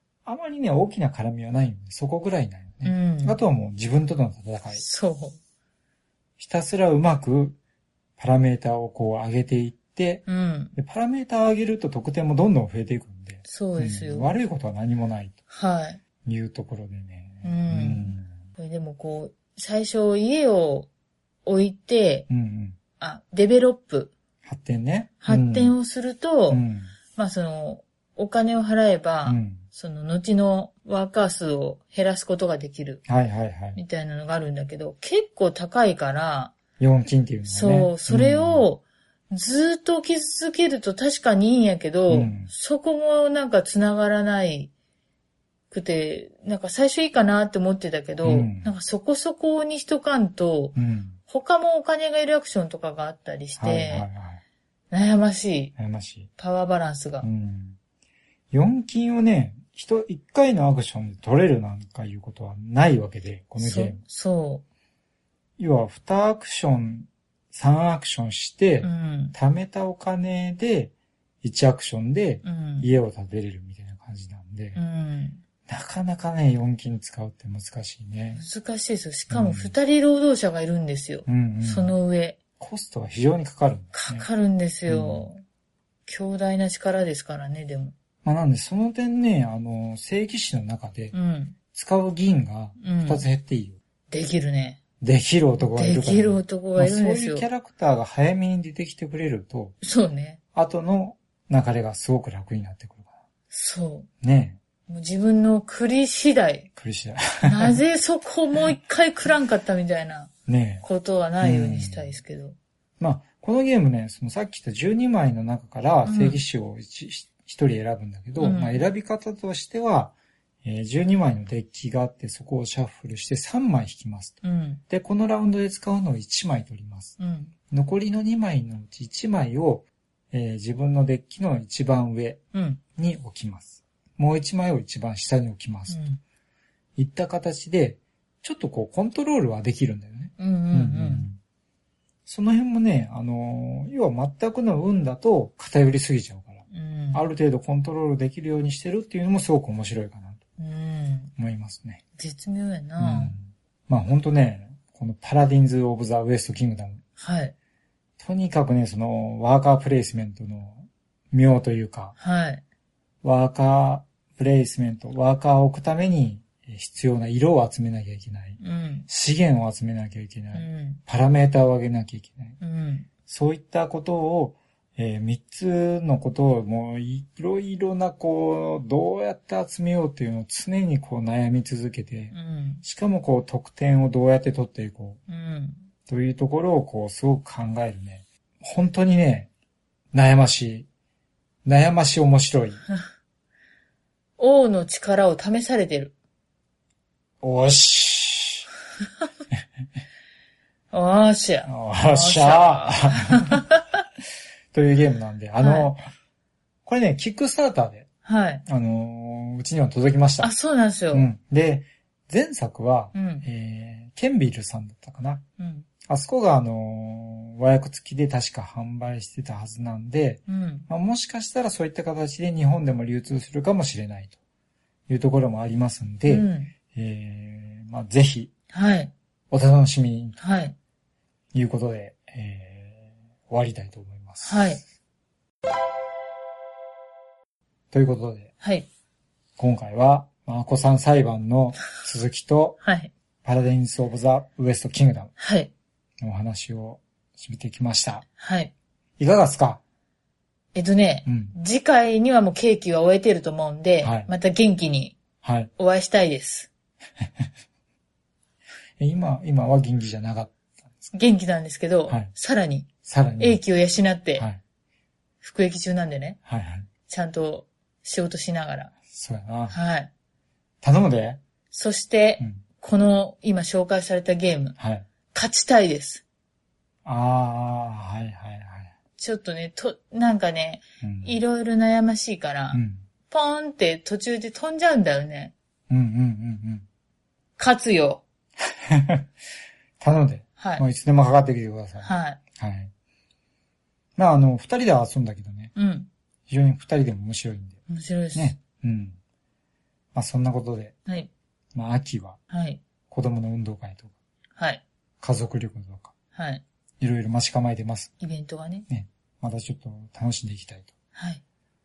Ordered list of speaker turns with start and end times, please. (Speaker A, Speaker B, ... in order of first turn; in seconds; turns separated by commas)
Speaker A: 0.3-4.8, Speaker B: 2.8-3.4, Speaker B: 4.7-5.4, Speaker A: 6.4-7.6, Speaker A: 8.2-15.4, Speaker B: 10.3-10.7, Speaker B: 13.4-14.3, Speaker B: 15.5-16.0, Speaker A: 16.2-18.4, Speaker B: 17.4-20.9, Speaker B: 21.4-22.3, Speaker A: 22.3-22.8, Speaker B: 23.0-24.1, Speaker A: 24.4-25.8, Speaker B: 25.2-33.0, Speaker A: 26.5-26.9, Speaker A: 29.3-29.6, Speaker A: 33.1-33.8, Speaker B: 33.8-36.6, Speaker A: 36.8-38.7, Speaker B: 37.5-44.7, Speaker A: 42.1-42.5, Speaker B: 45.7-50.8, Speaker A: 48.2-48.8, Speaker A: 50.8-51.2, Speaker B: 51.3-54.1, Speaker A: 53.6-54.4, Speaker B: 54.9-55.8, Speaker A: 55.8-56.3, Speaker B: 56.4-57.3, Speaker A: 57.2-57.8, Speaker A: 58.5-64.0, Speaker B: 63.6-64.6, Speaker A: 65.6-74.8, Speaker B: 68.8-69.4, Speaker B: 72.4-72.9, Speaker B: 74.8-75.4, Speaker A: 75.7-78.4, Speaker B: 78.3-82.4, Speaker A: 79.3-79.7, Speaker A: 81.3-82.0, Speaker A: 82.6-84.3, Speaker B: 83.9-85.4, Speaker A: 84.9-85.3, Speaker B: 86.1-87.9, Speaker A: 88.2-91.1, Speaker B: 91.1-91.6, Speaker A: 91.7-93.8, Speaker B: 92.8-93.3, Speaker B: 94.1-94.8, Speaker A: 95.0-99.8, Speaker B: 95.7-97.5, Speaker B: 99.8-100.4, Speaker A: 100.5-103.2, Speaker B: 103.5-104.1, Speaker A: 104.2-104.6, Speaker B: 104.9-106.7, Speaker A: 106.8-107.8, Speaker B: 107.4-110.3, Speaker A: 110.5-110.8, Speaker B: 110.8-112.6, Speaker A: 111.4-112.2, Speaker A: 113.0-127.2, Speaker B: 116.0-116.4, Speaker B: 118.4-118.9, Speaker B: 124.4-124.8, Speaker B: 127.2-127.5, Speaker A: 127.7-132.4, Speaker B: 132.5-132.8, Speaker A: 132.9-136.0, Speaker B: 135.9-136.2, Speaker A: 137.0-141.4, Speaker B: 140.4-141.3, Speaker A: 142.3-150.4, Speaker B: 146.7-147.2, Speaker B: 150.6-151.3, Speaker A: 151.4-152.0, Speaker B: 152.2-153.4, Speaker A: 153.0-157.0, Speaker B: 157.2-157.6, Speaker A: 158.2-162.2, Speaker B: 162.2-162.6, Speaker A: 163.2-172.6, Speaker B: 168.6-169.1, Speaker B: 170.5-171.0, Speaker B: 172.6-173.1, Speaker A: 173.3-185.2, Speaker B: 182.3-182.8, Speaker B: 185.3-185.9, Speaker A: 186.1-189.5, Speaker A: 190.1-190.9, Speaker A: 191.7-192.8, Speaker B: 194.4-196.1, Speaker A: 197.4-198.7, Speaker B: 200.9-203.9, Speaker A: 201.7-203.7, Speaker A: 204.7-206.0, Speaker B: 205.6-205.9, Speaker A: 206.9-208.1, Speaker B: 208.2-208.6, Speaker A: 208.7-210.5, Speaker B: 210.4-211.3, Speaker A: 211.1-215.4, Speaker B: 213.1-213.4, Speaker B: 215.6-215.9, Speaker A: 216.1-224.4, Speaker B: 220.5-220.9, Speaker A: 225.1-228.5, Speaker B: 226.3-226.7, Speaker B: 228.7-229.1, Speaker A: 229.5-230.4, Speaker B: 230.4-230.8, Speaker A: 231.5-234.8, Speaker B: 234.4-234.8, Speaker A: 237.9-238.5, Speaker B: 238.6-238.9, Speaker A: 239.6-242.8, Speaker B: 242.8-243.1, Speaker A: 243.4-245.3, Speaker B: 245.4-245.7, Speaker A: 246.2-248.2, Speaker B: 248.4-248.7, Speaker A: 249.2-249.8, Speaker B: 250.8-255.2, Speaker A: 251.3-251.6, Speaker A: 254.0-254.3, Speaker A: 255.4-255.7, Speaker B: 255.8-256.7, Speaker A: 257.2-257.5, Speaker A: 259.0-261.1, Speaker B: 261.1-264.5, Speaker A: 263.0-263.6, Speaker B: 265.4-266.4, Speaker A: 266.5-266.9, Speaker B: 267.1-268.9, Speaker A: 269.1-269.8, Speaker B: 269.7-270.1, Speaker A: 270.8-271.4, Speaker B: 271.7-274.8, Speaker A: 274.8-275.1, Speaker B: 275.3-276.2, Speaker A: 277.1-278.9, Speaker B: 279.2-285.5, Speaker A: 281.0-281.4, Speaker A: 282.7-283.0, Speaker A: 285.9-286.9, Speaker B: 287.6-288.2, Speaker A: 288.6-289.3, Speaker A: 290.0-292.9, Speaker B: 290.6-290.9, Speaker B: 292.0-292.4, Speaker A: 294.2-295.7, Speaker B: 295.8-296.1, Speaker A: 296.5-297.8, Speaker B: 297.9-298.6, Speaker A: 298.4-299.2, Speaker A: 300.1-301.0, Speaker A: 301.7-302.4, Speaker B: 302.5-302.8, Speaker A: 303.1-304.1, Speaker B: 304.6-304.8, Speaker A: 305.2-306.1, Speaker B: 306.4-306.6, Speaker A: 307.0-308.1, Speaker B: 308.2-308.9, Speaker A: 308.9-310.9, Speaker B: 311.1-311.4